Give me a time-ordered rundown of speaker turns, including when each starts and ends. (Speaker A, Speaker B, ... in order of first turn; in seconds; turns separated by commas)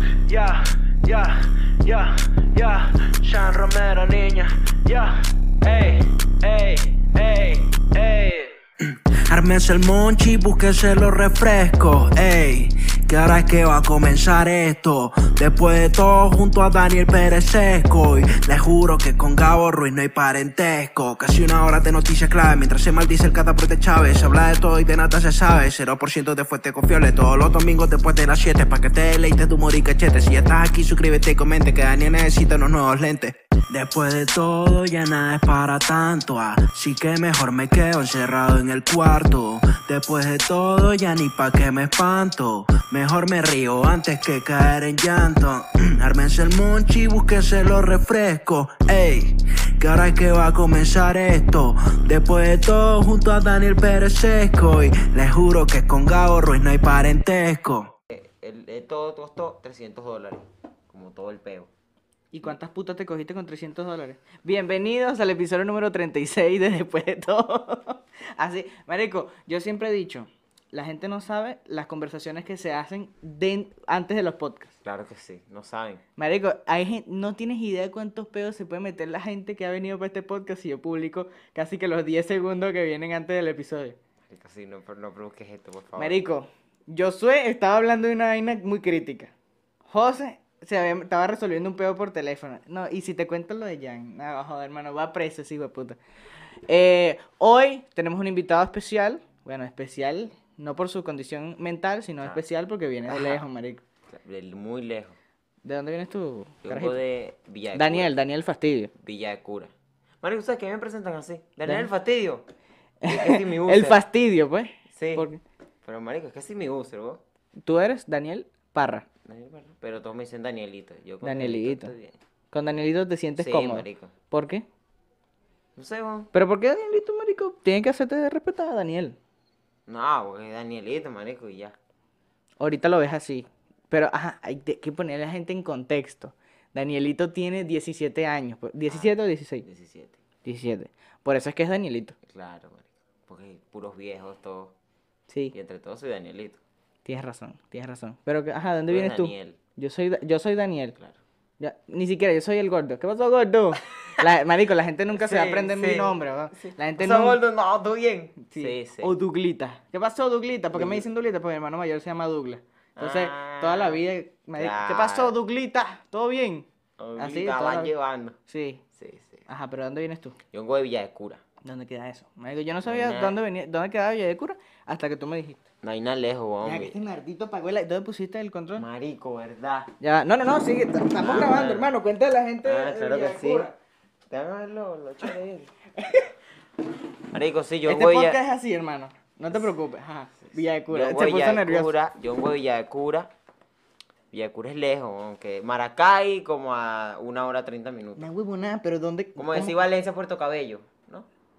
Speaker A: 3.3-4.4, Speaker B: 3.4-5.0, Speaker B: 5.7-6.0, Speaker A: 6.4-8.2, Speaker B: 6.5-7.2, Speaker B: 8.0-8.4, Speaker A: 8.8-57.9, Speaker C: 58.1-61.7, Speaker D: 62.3-74.7, Speaker C: 74.8-76.0, Speaker D: 76.2-84.0, Speaker C: 84.3-86.2, Speaker D: 86.0-89.3, Speaker D: 89.9-96.0, Speaker D: 96.7-103.8, Speaker C: 103.1-103.4, Speaker C: 104.1-105.2, Speaker D: 105.6-107.0, Speaker C: 106.6-108.1, Speaker D: 107.7-108.9, Speaker C: 109.0-109.7, Speaker C: 110.2-112.4, Speaker D: 113.0-115.4, Speaker C: 113.1-114.0, Speaker C: 114.9-115.2, Speaker C: 115.8-117.2, Speaker D: 117.6-119.0, Speaker C: 119.2-122.1, Speaker D: 121.2-121.9, Speaker D: 122.5-124.6, Speaker C: 123.4-124.1, Speaker C: 125.8-126.3, Speaker D: 126.3-129.2, Speaker C: 129.9-131.7, Speaker D: 132.6-139.7, Speaker C: 139.6-140.2, Speaker D: 140.4-142.2, Speaker C: 142.2-144.7, Speaker D: 145.3-145.5, Speaker C: 145.5-146.6, Speaker D: 147.1-151.0, Speaker C: 148.9-149.6, Speaker D: 151.6-157.4, Speaker C: 153.9-154.2, Speaker C: 155.1-159.1, Speaker D: 158.4-166.7, Speaker C: 160.7-161.0, Speaker C: 163.0-164.0, Speaker C: 164.6-165.3, Speaker C: 167.0-168.4, Speaker D: 167.2-167.9, Speaker D: 168.5-168.8, Speaker C: 168.9-169.4, Speaker D: 169.5-170.4, Speaker C: 170.5-171.4, Speaker D: 171.6-175.6, Speaker C: 172.8-173.4, Speaker C: 175.8-176.9, Speaker D: 176.6-178.8, Speaker C: 178.8-179.9, Speaker D: 180.0-183.7, Speaker C: 181.2-181.9, Speaker C: 182.6-183.7, Speaker C: 184.3-185.7, Speaker D: 186.0-186.3, Speaker C: 187.3-188.4, Speaker D: 187.9-191.9, Speaker C: 190.9-193.3, Speaker C: 194.3-198.2, Speaker D: 198.2-199.8, Speaker C: 199.4-201.2